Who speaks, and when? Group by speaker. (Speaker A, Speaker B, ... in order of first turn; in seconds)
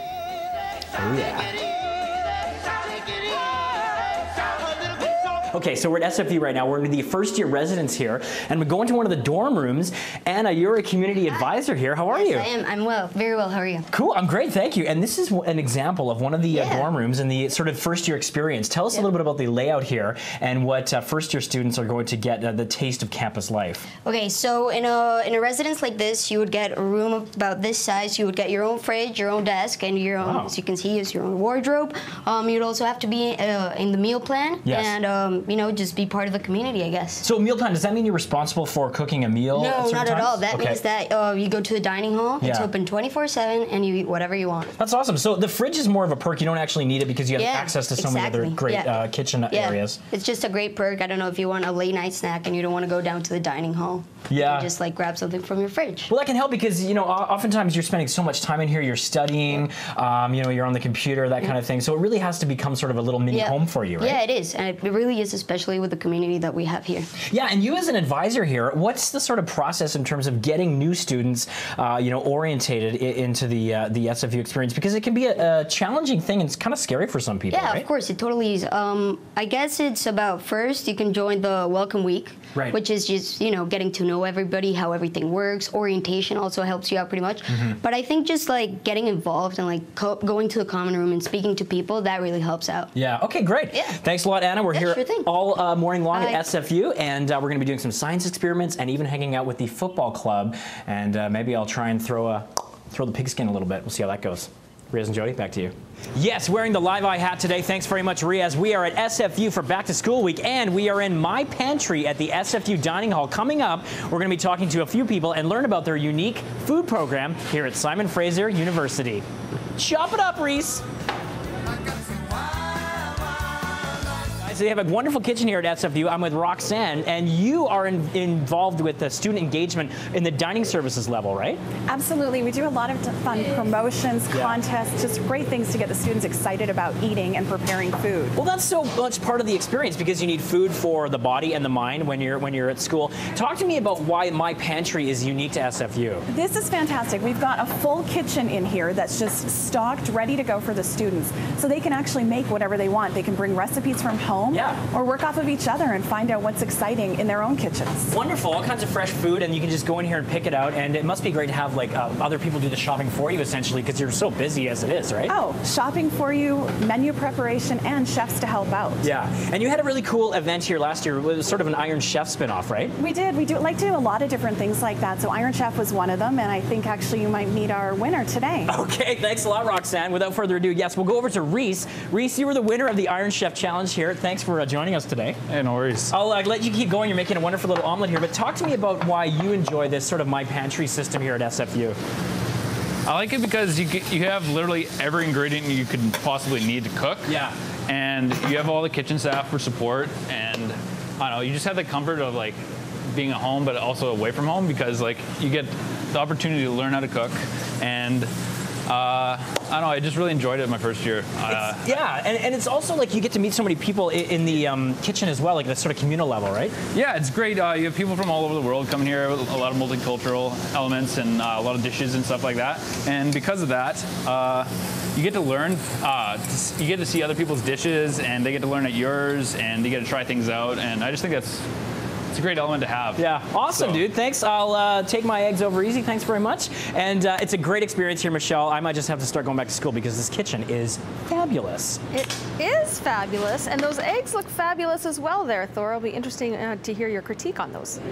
Speaker A: 1.0-1.5, 5.5-12.5, 13.9-23.9, 30.2-30.5, 34.6-35.0, 37.2-40.8, 42.4-42.7, 44.8-50.0, 54.3-54.7, 56.1-64.2, 67.3-77.8, 87.5-87.8, 93.0-119.2, 119.8-120.8, 124.4-131.6, 134.3-134.6, 138.4-146.2, 154.5-154.8, 158.1-165.4, 169.0-172.9, 178.7-185.4, 186.1-192.0, 197.3-197.5, 211.5-216.8, 233.2-242.0
Speaker B: 12.1-13.9, 16.5-16.9, 24.1-37.2, 39.5-44.7, 47.4-56.1, 63.3-67.1, 77.5-92.9, 93.7-94.0, 94.7-95.3, 96.1-96.5
Speaker C: 131.9-138.4, 146.3-158.2, 165.3-169.1, 173.0-178.7
Speaker D: 185.5-186.1, 193.1-197.3, 197.9-202.6, 203.1-208.3, 208.9-211.9, 216.9-231.7, 232.3-234.0
Speaker E: 242.1-248.0